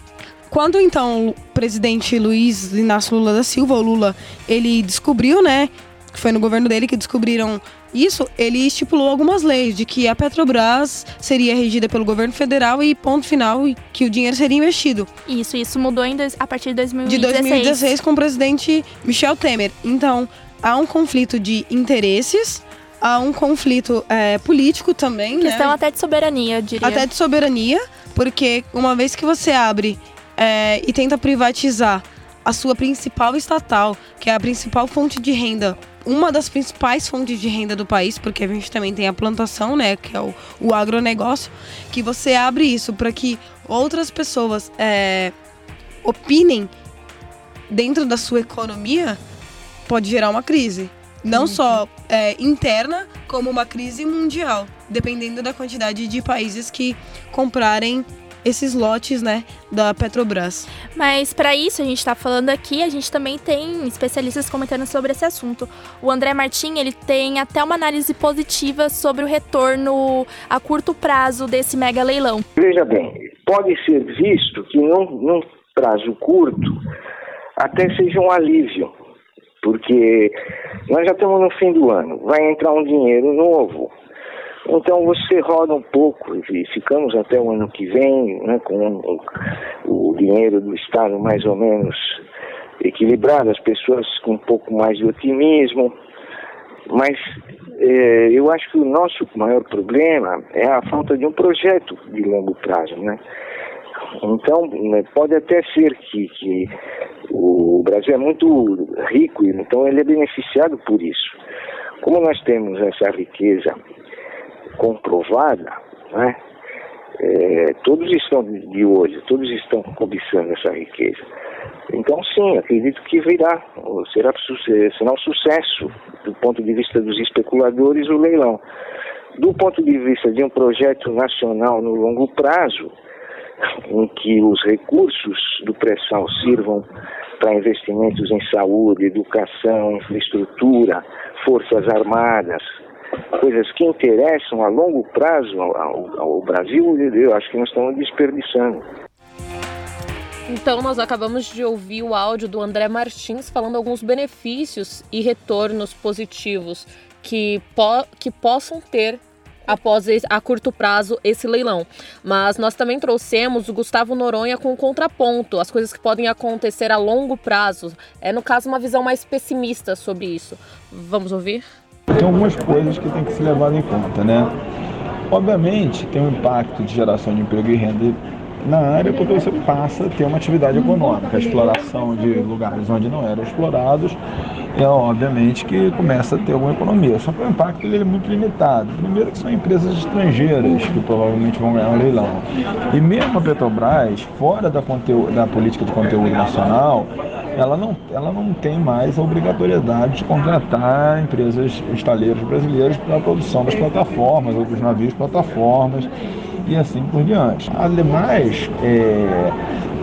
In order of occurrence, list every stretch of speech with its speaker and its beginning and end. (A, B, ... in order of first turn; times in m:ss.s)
0:00.5-0:15.1 A
0:15.3-0:17.9 B
0:17.0-0:25.7 A
0:25.4-0:27.1 B
0:26.8-0:45.3 A
0:46.0-0:46.7 A
0:47.7-0:49.2 A
0:49.9-1:00.7 A
0:51.3-0:51.8 B
1:00.9-1:12.4 B
1:12.6-1:16.8 C
1:17.6-1:18.9 C
1:19.6-1:20.4 C
1:20.9-1:23.9 C
1:24.7-1:29.2 C
1:29.8-1:32.2 C
1:32.8-1:35.9 C
1:36.9-1:37.2 C
1:37.8-1:43.2 C
1:44.2-1:46.7 C
1:47.3-1:51.4 C
1:52.0-1:53.8 C
1:54.8-1:56.4 C
1:57.2-2:01.3 C
2:01.9-2:08.6 C
2:09.4-2:12.9 C
2:13.9-2:16.8 C
2:17.4-2:22.6 C
2:23.4-2:28.8 C
2:30.5-2:51.6 D
2:52.1-2:54.5 E
2:55.3-3:04.2 E
3:04.7-3:26.1 E
3:26.6-3:29.6 E